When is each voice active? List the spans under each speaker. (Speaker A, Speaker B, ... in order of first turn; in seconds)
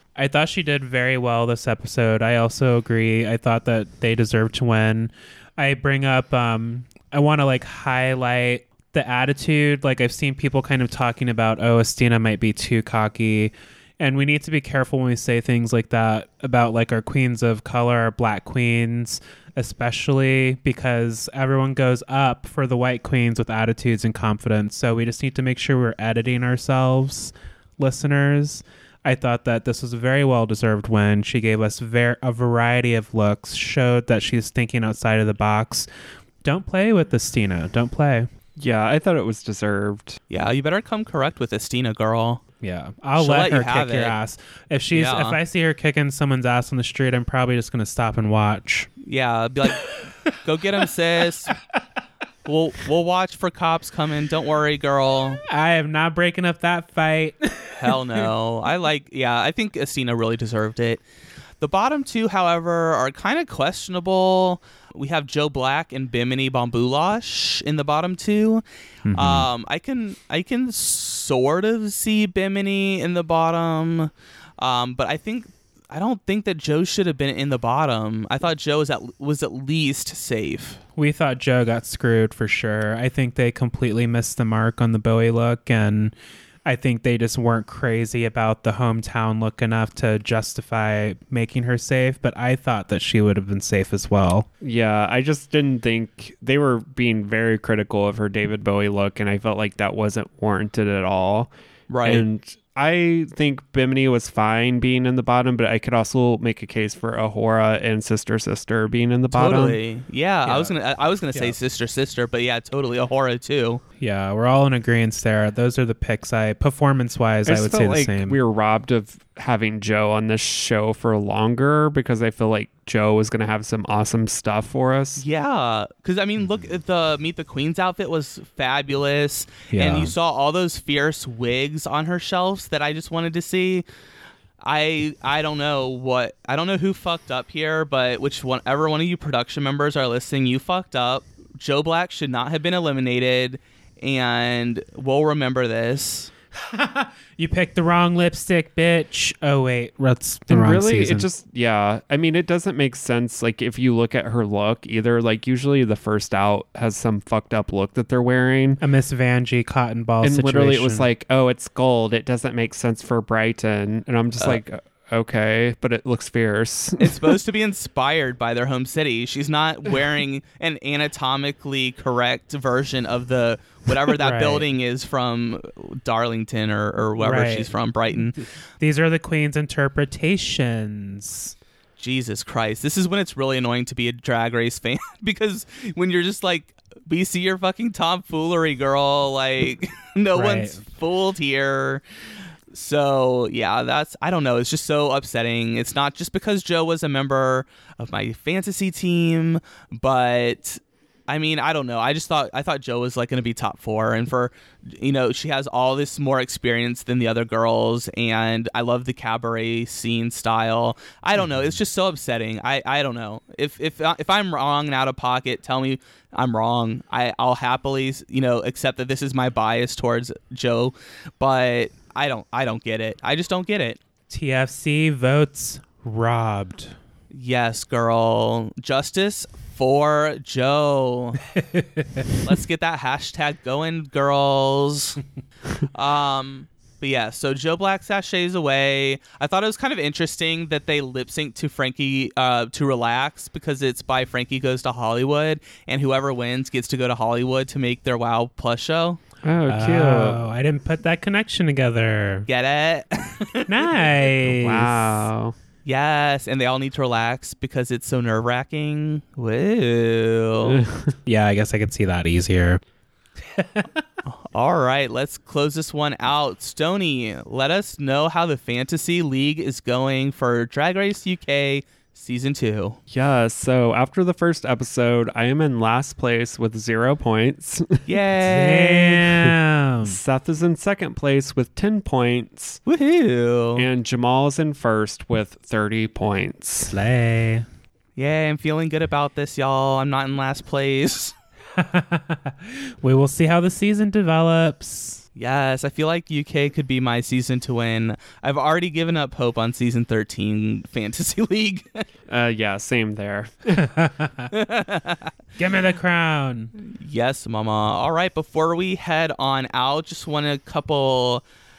Speaker A: 0.2-35.9, 36.4-38.3, 42.6-48.9, 49.8-50.4, 55.5-58.3, 69.0-69.5, 81.0-86.1, 86.7-94.5, 110.4-110.7, 114.0-118.4, 129.7-130.1, 146.6-151.3, 158.8-161.1, 174.2-174.6, 177.2-177.7, 178.8-181.5, 190.3-190.8, 224.3-226.9, 231.5-232.4, 249.7-252.5, 253.7-255.3, 261.2-262.8, 263.4-264.0, 278.4-280.2, 286.9-287.6, 291.8-295.2, 303.8-304.5, 305.6-306.7
Speaker B: 38.6-40.2, 94.6-101.5, 102.0-109.8, 117.5-125.2, 150.5-158.8, 160.2-167.4, 249.4-250.4, 254.5-255.5, 260.6-261.1, 273.1-278.1, 280.0-282.8, 283.8-286.9, 302.3-303.9
Speaker C: 40.3-42.4, 43.2-44.1, 44.9-45.4, 49.0-51.5, 52.4-55.4, 57.8-61.0, 61.6-68.6, 69.1-80.8, 101.9-102.2, 109.3-113.8, 125.2-133.8, 134.6-146.3, 167.0-178.4, 182.0-192.0, 192.7-224.0, 227.3-231.4, 232.4-235.2, 235.9-249.2, 252.5-254.2, 255.8-260.8, 264.3-273.0, 278.1-279.3, 282.9-283.9, 288.1-291.3, 295.4-302.0, 304.5-305.3, 306.8-311.4